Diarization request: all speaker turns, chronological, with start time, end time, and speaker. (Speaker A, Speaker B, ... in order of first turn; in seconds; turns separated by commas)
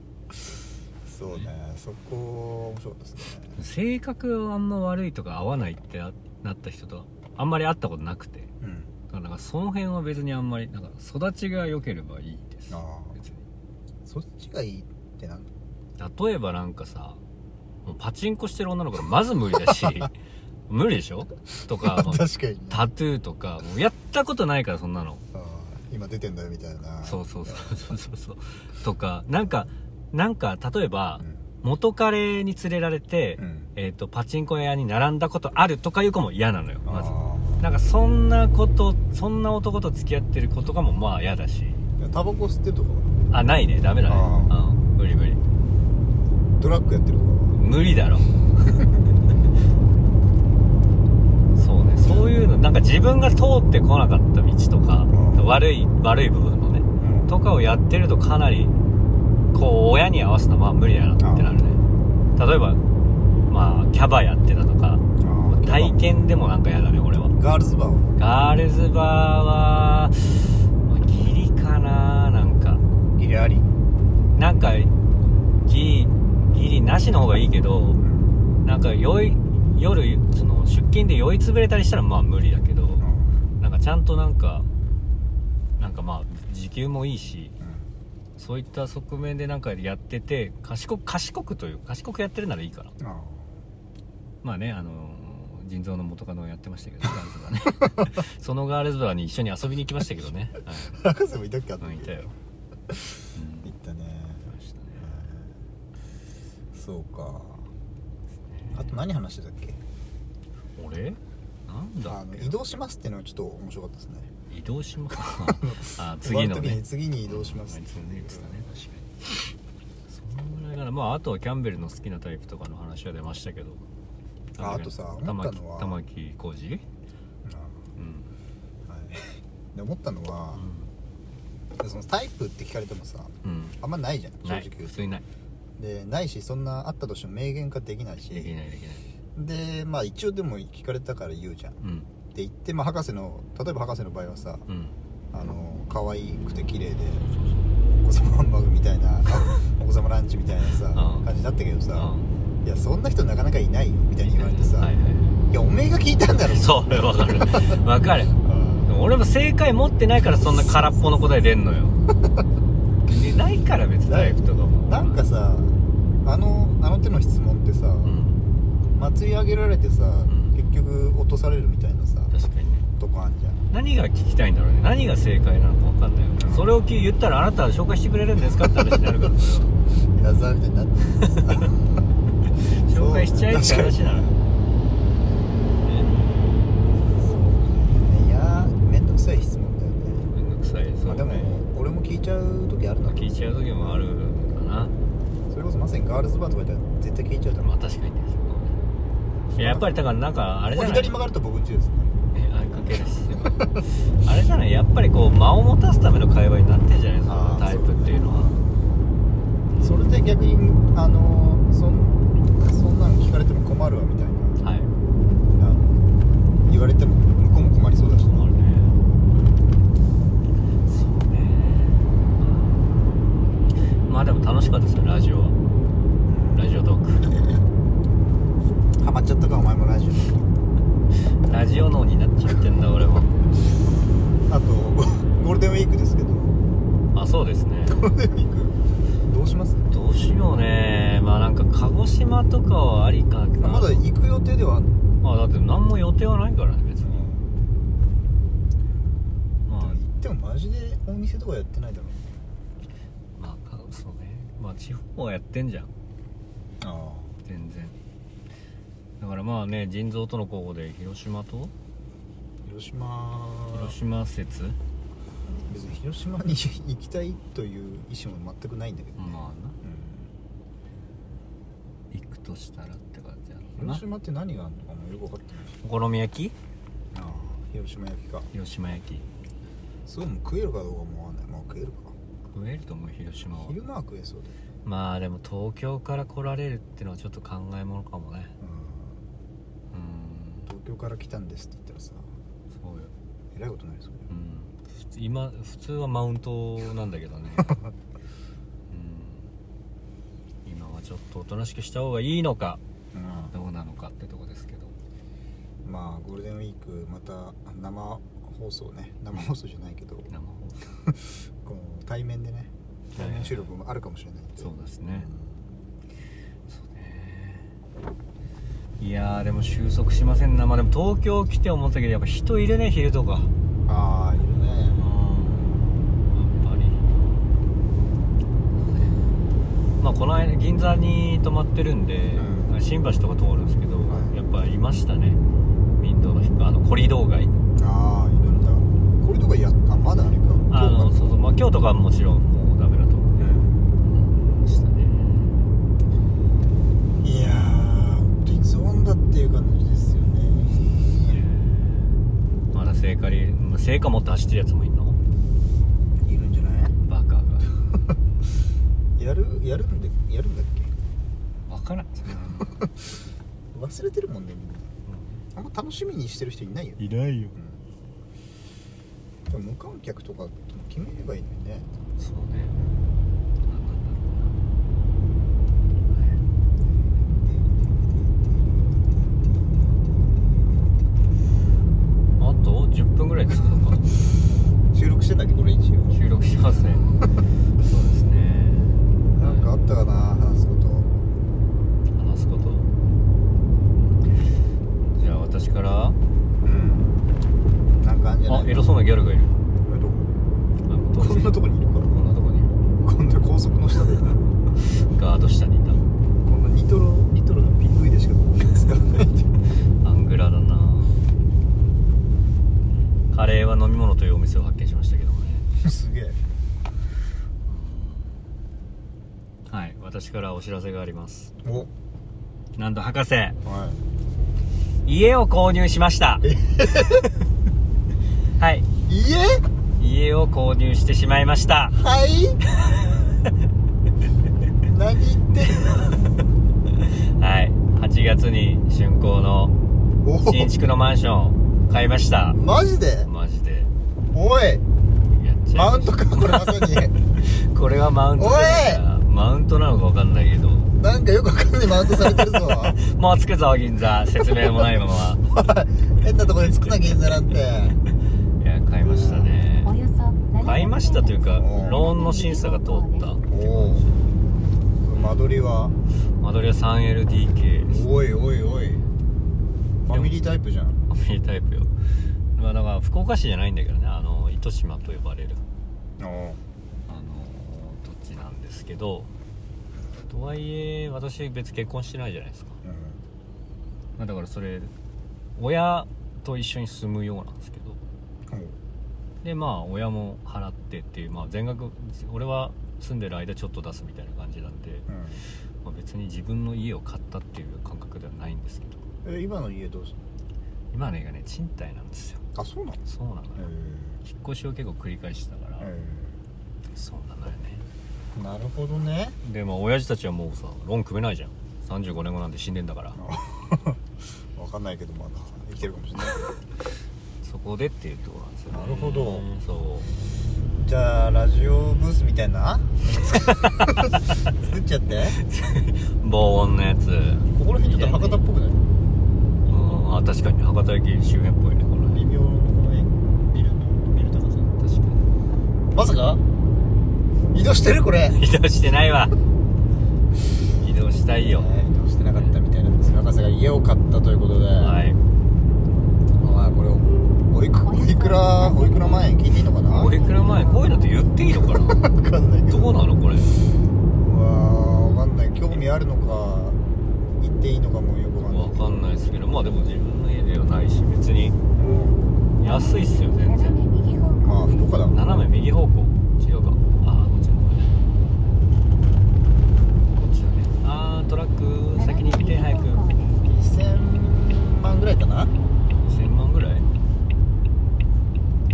Speaker A: 1.1-3.6, Speaker B: 3.6-8.5, Speaker A: 8.6-8.9, Speaker B: 9.1-13.5, Speaker A: 12.7-13.2, Speaker A: 14.1-15.5, Speaker B: 16.0-17.2, Speaker B: 17.9-20.1, Speaker A: 19.6-20.1, Speaker B: 20.7-25.2, Speaker A: 21.7-22.9, Speaker A: 25.3-27.9, Speaker B: 27.0-41.9, Speaker A: 33.4-33.7, Speaker A: 36.9-37.7, Speaker A: 42.0-43.2, Speaker B: 43.3-45.4, Speaker A: 44.1-44.6, Speaker A: 46.6-47.6, Speaker B: 47.5-48.4, Speaker A: 48.6-49.0, Speaker B: 51.6-58.7, Speaker A: 52.0-52.4, Speaker A: 55.1-55.4, Speaker A: 57.0-57.3, Speaker B: 59.5-61.8, Speaker A: 61.2-61.6, Speaker B: 62.4-62.8, Speaker B: 63.5-67.3, Speaker A: 65.2-66.0, Speaker A: 67.3-68.1, Speaker B: 68.2-72.8, Speaker A: 73.2-73.7, Speaker B: 74.4-74.9, Speaker B: 75.7-78.0, Speaker A: 78.0-78.4, Speaker B: 78.6-83.1, Speaker A: 83.0-83.5, Speaker B: 83.6-84.7, Speaker B: 85.8-87.6, Speaker A: 87.6-87.9, Speaker B: 88.4-93.0, Speaker A: 93.0-93.6, Speaker B: 94.4-101.0, Speaker A: 97.8-98.1, Speaker A: 100.9-102.2, Speaker B: 101.8-102.3, Speaker A: 102.9-105.5, Speaker B: 103.3-103.7, Speaker B: 104.5-105.2, Speaker A: 106.7-107.7, Speaker B: 108.4-109.0, Speaker A: 108.7-109.8, Speaker B: 110.8-112.6, Speaker A: 112.0-114.3, Speaker B: 114.5-119.3, Speaker A: 115.3-118.7, Speaker B: 120.1-123.8, Speaker B: 124.6-126.8, Speaker A: 124.6-126.0, Speaker A: 127.5-127.9, Speaker B: 128.0-128.3, Speaker A: 128.9-130.6, Speaker B: 130.5-130.9, Speaker A: 131.8-135.1, Speaker B: 133.4-133.8, Speaker B: 134.4-135.3, Speaker A: 135.8-138.6, Speaker B: 138.3-139.1, Speaker A: 139.4-141.8, Speaker B: 141.8-142.1, Speaker A: 142.3-144.7, Speaker B: 144.7-145.5, Speaker A: 145.3-147.3, Speaker B: 147.3-147.7, Speaker A: 148.0-154.9, Speaker B: 149.3-149.6, Speaker B: 150.9-151.3, Speaker B: 151.9-152.3, Speaker B: 154.2-155.4, Speaker A: 155.5-157.8, Speaker B: 156.4-162.0, Speaker A: 158.4-158.9, Speaker A: 160.4-161.4, Speaker B: 163.1-165.2, Speaker A: 164.1-168.2, Speaker B: 168.0-168.4, Speaker A: 169.0-172.3, Speaker B: 170.3-170.6, Speaker B: 172.3-172.8, Speaker A: 173.0-173.6, Speaker B: 173.7-179.7, Speaker A: 176.4-176.8, Speaker A: 178.4-179.1, Speaker A: 180.1-182.0, Speaker B: 181.2-181.7, Speaker B: 182.7-184.3, Speaker A: 182.9-184.4, Speaker B: 185.8-186.1, Speaker A: 186.9-190.3, Speaker B: 190.3-191.5, Speaker A: 191.1-194.1, Speaker B: 193.1-194.9, Speaker A: 195.5-197.7, Speaker B: 197.6-198.8, Speaker A: 199.5-200.1, Speaker B: 199.6-201.1, Speaker A: 200.7-202.2, Speaker B: 202.3-208.5, Speaker A: 202.7-203.8, Speaker A: 207.3-208.6, Speaker B: 209.7-210.0, Speaker A: 209.8-214.6, Speaker B: 214.6-214.9, Speaker A: 215.6-218.5, Speaker B: 218.3-218.9, Speaker B: 220.8-222.9, Speaker B: 224.1-225.6, Speaker A: 226.3-226.7, Speaker B: 226.5-227.3, Speaker A: 229.0-230.6, Speaker B: 231.4-233.4, Speaker A: 234.5-236.6, Speaker B: 237.1-238.1, Speaker A: 237.9-239.9, Speaker B: 239.9-244.1, Speaker A: 243.6-244.9, Speaker B: 245.2-247.2, Speaker A: 247.0-247.5, Speaker B: 249.7-250.0, Speaker A: 249.8-252.4, Speaker B: 253.4-255.9, Speaker A: 256.8-257.4, Speaker B: 257.4-258.0, Speaker B: 259.2-261.7, Speaker A: 262.6-264.0, Speaker B: 263.7-264.8, Speaker A: 265.7-270.3, Speaker B: 269.2-269.8, Speaker B: 272.1-274.0, Speaker A: 273.8-275.8, Speaker B: 275.8-276.6, Speaker A: 277.1-278.5, Speaker B: 278.5-279.3, Speaker A: 280.1-282.1, Speaker B: 282.4-283.8, Speaker A: 283.5-284.6, Speaker B: 284.9-288.6, Speaker A: 288.6-289.2, Speaker B: 289.9-290.7, Speaker A: 290.7-292.3, Speaker B: 292.7-293.1, Speaker A: 293.5-294.3, Speaker B: 294.3-297.8, Speaker A: 297.6-297.9, Speaker B: 298.9-299.5, Speaker B: 300.6-302.8, Speaker A: 303.1-303.5, Speaker B: 303.5-304.9, Speaker A: 305.8-310.3, Speaker B: 310.3-310.9, Speaker A: 311.1-315.6, Speaker B: 313.2-313.7, Speaker B: 314.6-315.3, Speaker B: 316.7-317.7, Speaker B: 319.0-323.5, Speaker A: 323.9-325.1, Speaker B: 325.0-327.2, Speaker B: 328.8-329.4, Speaker B: 330.0-335.4, Speaker A: 332.4-332.7, Speaker A: 334.1-334.3, Speaker B: 336.0-337.5, Speaker A: 337.8-341.4, Speaker B: 340.7-345.6, Speaker A: 343.4-343.8, Speaker A: 347.2-351.4, Speaker B: 351.2-352.2, Speaker B: 352.7-355.2, Speaker A: 356.2-356.9, Speaker B: 357.1-357.7, Speaker A: 359.2-360.9, Speaker B: 361.7-362.9, Speaker A: 362.3-362.9, Speaker A: 363.7-364.9, Speaker B: 365.1-365.4, Speaker A: 365.5-367.0, Speaker B: 367.0-367.6, Speaker A: 369.5-371.9, Speaker B: 372.2-372.8, Speaker A: 372.8-373.1, Speaker B: 373.7-374.6, Speaker B: 376.1-376.4, Speaker A: 376.8-380.9, Speaker B: 382.4-384.1, Speaker A: 384.9-386.2, Speaker B: 386.1-387.2, Speaker B: 387.8-389.7, Speaker A: 389.3-391.1, Speaker B: 392.1-392.9, Speaker B: 395.1-396.2, Speaker A: 396.6-397.1, Speaker A: 398.0-398.9, Speaker B: 398.5-399.6, Speaker A: 399.8-400.3, Speaker B: 400.9-402.8, Speaker A: 401.2-402.1, Speaker A: 403.0-404.4, Speaker B: 404.8-406.0, Speaker A: 406.4-409.5, Speaker B: 410.0-411.2, Speaker B: 413.3-415.7, Speaker A: 415.8-416.4, Speaker B: 417.7-418.5, Speaker B: 419.7-421.5, Speaker A: 421.6-421.9, Speaker B: 422.8-423.6, Speaker A: 423.6-424.0, Speaker B: 425.1-426.5, Speaker A: 426.4-427.3, Speaker B: 428.6-428.9, Speaker A: 429.1-429.6, Speaker B: 430.0-432.0, Speaker A: 431.9-432.6, Speaker A: 434.8-436.3, Speaker B: 437.0-439.8, Speaker A: 440.2-440.7, Speaker B: 440.4-442.6, Speaker A: 442.5-443.3, Speaker B: 443.2-443.9, Speaker A: 444.3-444.9, Speaker B: 445.3-450.9, Speaker A: 445.7-447.1, Speaker A: 448.4-449.0, Speaker A: 451.0-453.0, Speaker B: 452.4-455.4, Speaker A: 455.5-458.0, Speaker B: 456.4-457.4, Speaker B: 458.6-459.9, Speaker A: 459.1-459.5, Speaker C: 459.8-463.3, Speaker B: 460.6-464.3, Speaker A: 461.6-462.1, Speaker A: 463.5-464.1, Speaker A: 465.0-466.0, Speaker B: 466.4-468.1, Speaker A: 467.9-469.1, Speaker A: 470.0-471.0, Speaker B: 470.1-470.4, Speaker B: 471.1-471.9, Speaker B: 472.6-475.6, Speaker A: 476.2-476.6, Speaker B: 477.1-479.3, Speaker B: 480.3-482.8, Speaker A: 482.8-483.2, Speaker B: 484.2-484.9, Speaker B: 485.6-488.0, Speaker A: 488.5-488.8, Speaker B: 489.4-495.1, Speaker A: 495.1-495.4, Speaker B: 495.8-499.1, Speaker A: 499.2-500.2, Speaker B: 500.9-502.4, Speaker A: 502.6-503.0, Speaker B: 503.1-503.7, Speaker A: 503.6-504.2, Speaker B: 504.2-505.9, Speaker A: 505.8-506.4, Speaker B: 506.9-507.9, Speaker A: 508.4-509.4, Speaker B: 509.4-513.2, Speaker A: 513.2-514.0, Speaker A: 514.6-516.5, Speaker B: 517.4-520.1, Speaker A: 518.7-519.5, Speaker A: 520.8-525.4, Speaker B: 523.0-524.5, Speaker B: 525.4-528.4, Speaker A: 527.5-528.8, Speaker B: 529.7-532.3, Speaker A: 532.1-534.8, Speaker B: 534.8-535.3, Speaker A: 535.9-536.4, Speaker A: 537.5-538.4, Speaker B: 538.3-539.3, Speaker B: 540.8-541.7, Speaker A: 541.4-545.0, Speaker B: 542.3-542.5, Speaker B: 544.8-545.2, Speaker A: 546.4-550.2, Speaker C: 547.8-551.3, Speaker B: 549.9-552.1, Speaker A: 551.6-553.1, Speaker B: 552.7-553.6, Speaker A: 554.2-556.8, Speaker A: 557.4-559.1, Speaker B: 558.4-561.6, Speaker A: 561.8-562.3, Speaker B: 562.6-563.8, Speaker C: 562.6-565.0, Speaker A: 564.4-565.5, Speaker B: 565.1-568.0, Speaker B: 570.1-573.0, Speaker C: 571.9-573.4, Speaker A: 573.5-575.5, Speaker B: 576.0-576.9